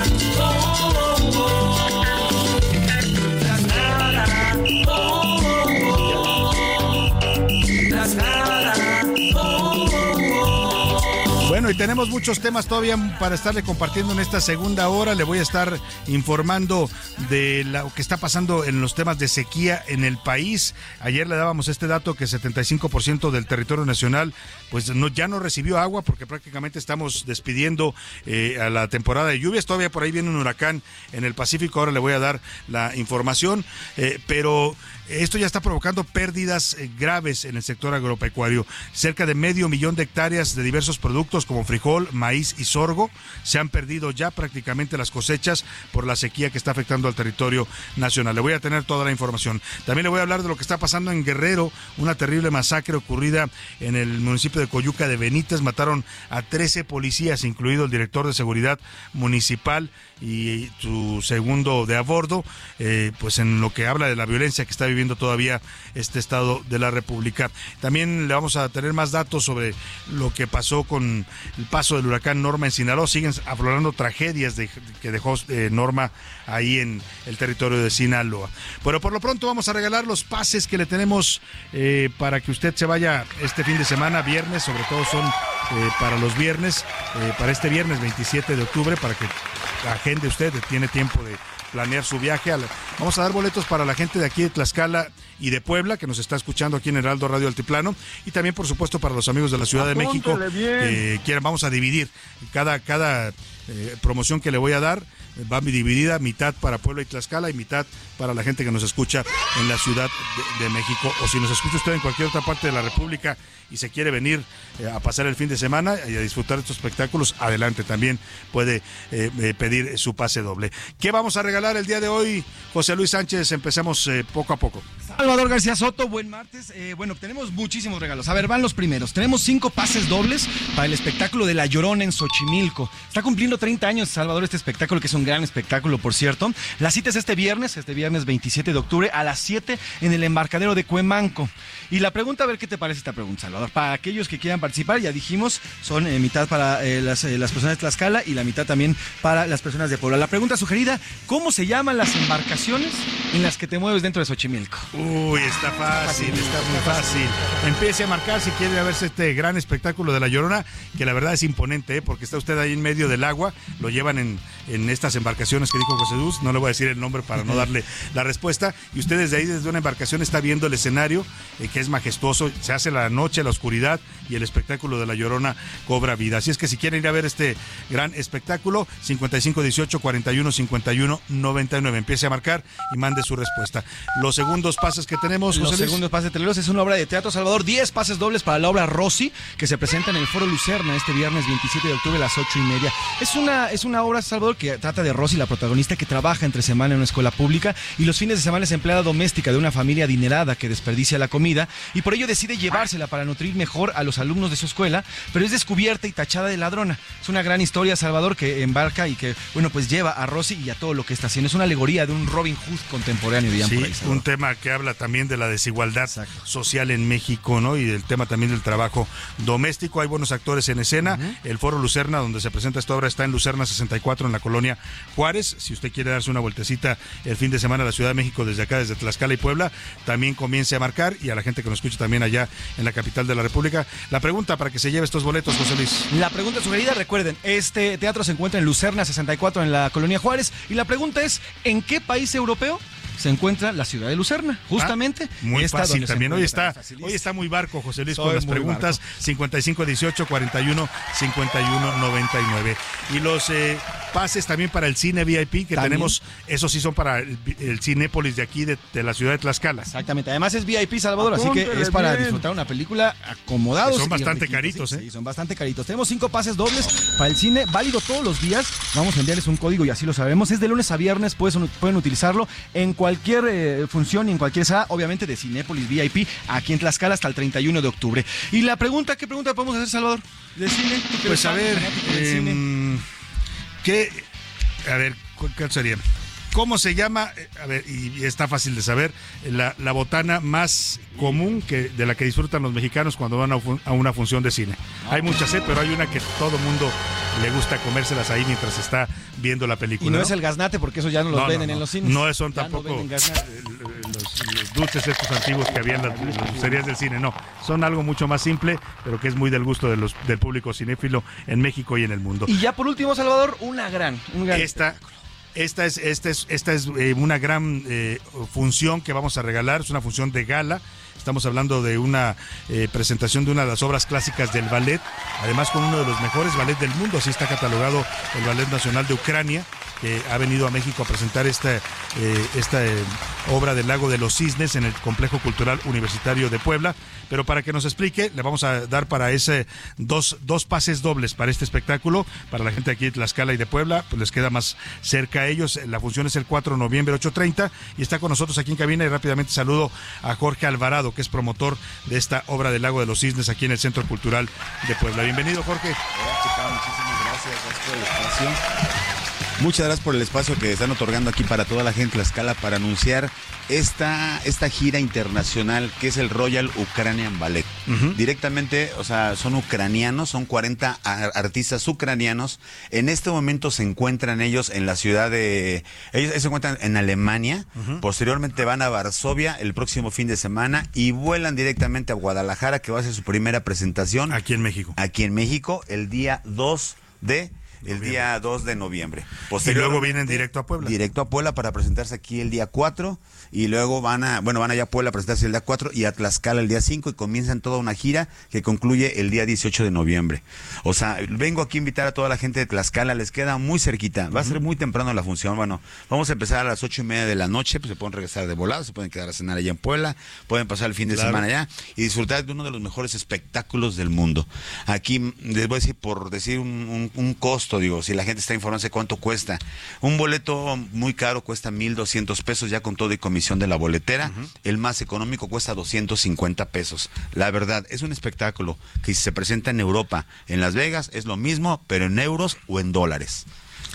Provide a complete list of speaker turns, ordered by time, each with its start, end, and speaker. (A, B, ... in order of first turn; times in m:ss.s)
0:11.4-2:04.9 A
1:39.9-1:41.0 B
2:05.1-2:37.8 B
2:34.9-3:06.0 A
2:47.4-2:47.7 B
3:05.5-3:34.2 B
3:33.6-3:56.1 A
3:36.1-3:36.4 B
3:41.0-3:41.4 B
3:56.1-4:07.4 B
4:04.7-4:19.9 A
4:08.1-4:09.1 B
4:15.7-4:16.2 B
4:19.8-4:42.6 B
4:23.8-4:25.0 A
4:41.2-4:43.0 A
4:43.8-4:44.2 A
4:44.8-5:00.4 A
4:51.2-4:51.4 B
4:55.1-4:55.3 B
5:00.0-5:03.4 B
5:01.3-5:12.5 A
5:05.6-5:06.9 B
5:12.5-5:15.1 B
5:14.5-5:15.0 A
5:15.6-5:56.0 A
5:56.1-5:58.6 C
5:59.6-6:24.4 C
6:07.9-6:08.2 A
6:24.3-6:25.0 A
6:25.0-7:13.5 C
6:27.8-6:28.3 A
6:29.6-6:31.0 A
6:44.3-6:44.6 A
6:51.1-6:51.4 A